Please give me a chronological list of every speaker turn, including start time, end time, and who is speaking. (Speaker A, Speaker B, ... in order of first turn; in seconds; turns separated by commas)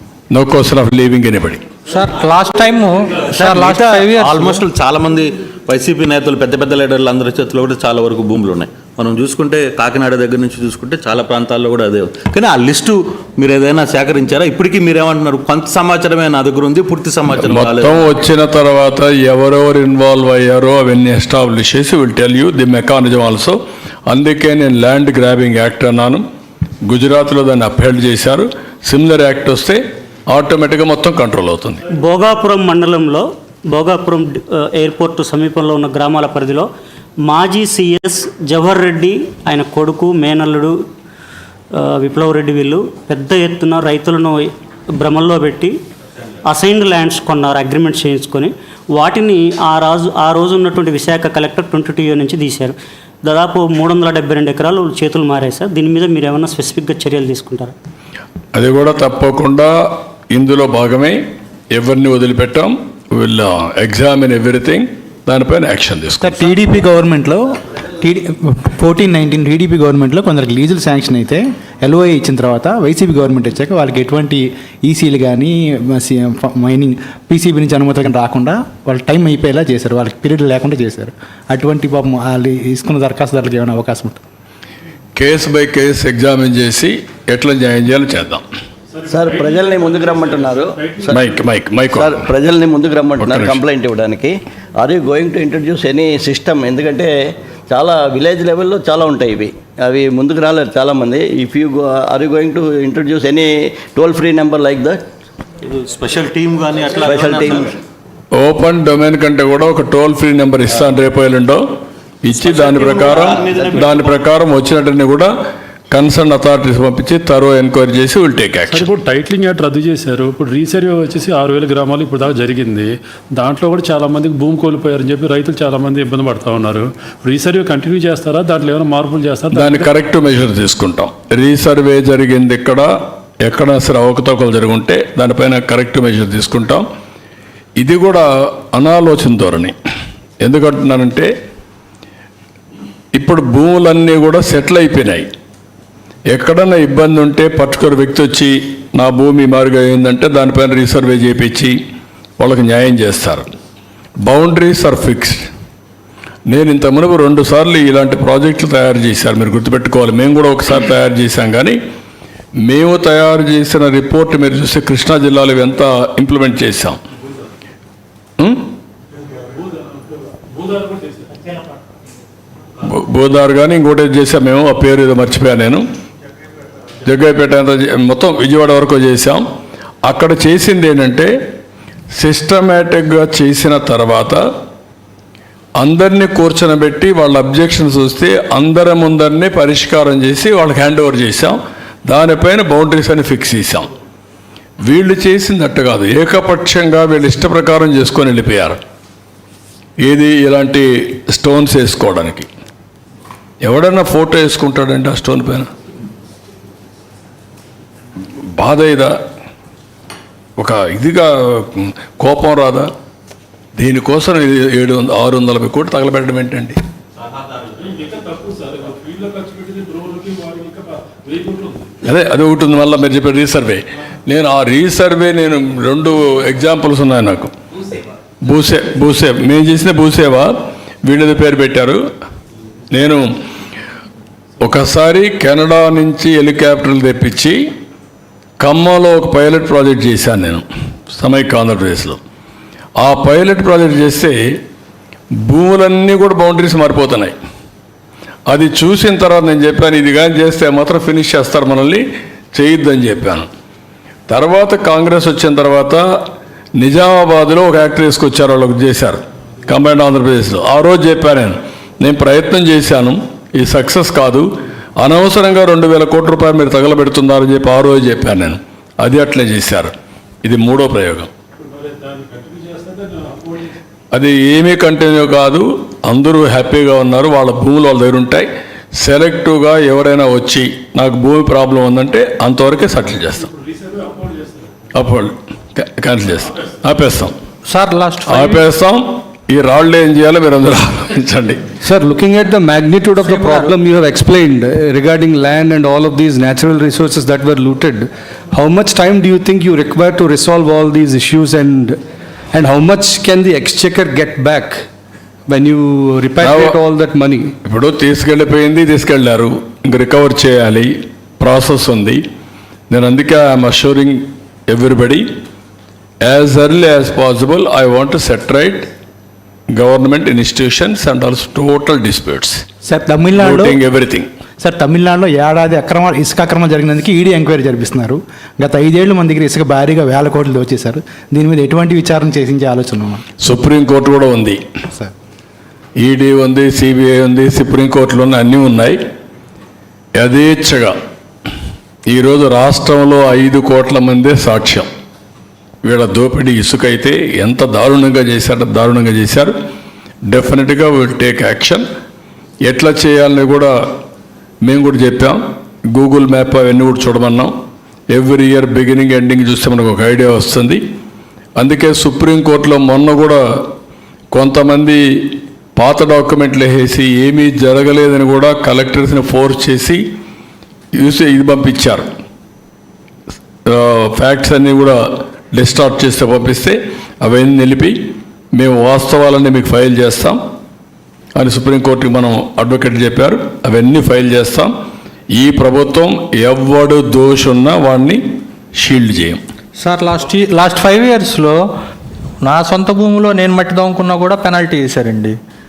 Speaker A: 0.3-1.6, Speaker B: 1.9-4.7, Speaker C: 3.4-18.1, Speaker A: 17.4-26.2, Speaker A: 26.9-31.8, Speaker D: 31.9-36.7, Speaker D: 37.2-40.7, Speaker D: 41.7-45.7, Speaker D: 46.5-57.7, Speaker A: 58.5-61.2, Speaker A: 61.7-66.5, Speaker E: 66.2-67.4, Speaker E: 68.0-84.2, Speaker A: 85.2-88.4, Speaker F: 88.9-91.0, Speaker G: 89.0-91.2, Speaker A: 91.1-92.3, Speaker G: 91.8-97.1, Speaker A: 93.2-93.6, Speaker G: 97.7-105.0, Speaker C: 105.6-107.8, Speaker G: 107.0-107.7, Speaker A: 108.3-111.6, Speaker A: 112.2-115.3, Speaker C: 112.3-114.2, Speaker A: 115.9-118.9, Speaker F: 118.7-129.5, Speaker A: 129.5-136.8, Speaker A: 137.8-139.8, Speaker A: 140.4-141.3, Speaker A: 143.1-145.3, Speaker A: 146.3-151.8, Speaker A: 152.4-153.5, Speaker A: 154.2-155.4, Speaker A: 156.5-161.8, Speaker A: 162.6-167.0, Speaker A: 168.4-168.7, Speaker F: 169.5-171.3, Speaker D: 171.3-171.7, Speaker A: 172.8-175.8, Speaker A: 177.0-179.4, Speaker A: 180.0-181.3, Speaker A: 182.2-184.4, Speaker A: 185.8-193.9, Speaker A: 194.8-198.8, Speaker A: 200.0-202.5, Speaker A: 203.6-205.7, Speaker A: 208.5-209.1, Speaker A: 210.6-212.9, Speaker A: 213.8-216.8, Speaker F: 217.9-221.9, Speaker A: 222.0-227.5, Speaker A: 228.4-232.0, Speaker A: 232.9-233.2, Speaker A: 234.6-237.6, Speaker A: 238.6-242.2, Speaker A: 243.0-244.4, Speaker A: 245.4-247.3, Speaker A: 248.5-252.0, Speaker A: 252.5-253.5, Speaker A: 254.3-256.0, Speaker A: 256.8-264.5, Speaker A: 265.0-269.9, Speaker A: 270.4-271.3, Speaker F: 271.8-273.5, Speaker A: 274.1-278.5, Speaker A: 279.0-283.5, Speaker F: 283.6-284.8, Speaker A: 284.9-287.3, Speaker B: 287.6-288.6, Speaker A: 288.3-291.7, Speaker H: 291.8-302.0, Speaker B: 293.2-293.7, Speaker H: 302.5-304.8, Speaker H: 305.5-307.5, Speaker A: 306.4-306.8, Speaker A: 307.6-312.2, Speaker A: 312.9-315.2, Speaker A: 316.2-318.9, Speaker A: 319.7-322.6, Speaker E: 322.9-323.8, Speaker A: 323.4-324.3, Speaker E: 324.6-333.2, Speaker A: 333.4-334.6, Speaker A: 336.0-339.0, Speaker A: 340.2-340.9, Speaker A: 342.1-344.9, Speaker A: 345.8-349.5, Speaker A: 350.3-351.9, Speaker A: 352.6-353.7, Speaker A: 354.6-355.4, Speaker A: 355.9-357.5, Speaker A: 358.1-360.8, Speaker A: 361.6-363.4, Speaker A: 364.3-370.0, Speaker A: 370.9-372.1, Speaker A: 373.6-378.0, Speaker A: 378.5-380.4, Speaker A: 381.4-384.7, Speaker A: 385.3-388.2, Speaker A: 388.7-389.4, Speaker B: 389.8-391.6, Speaker B: 392.4-395.3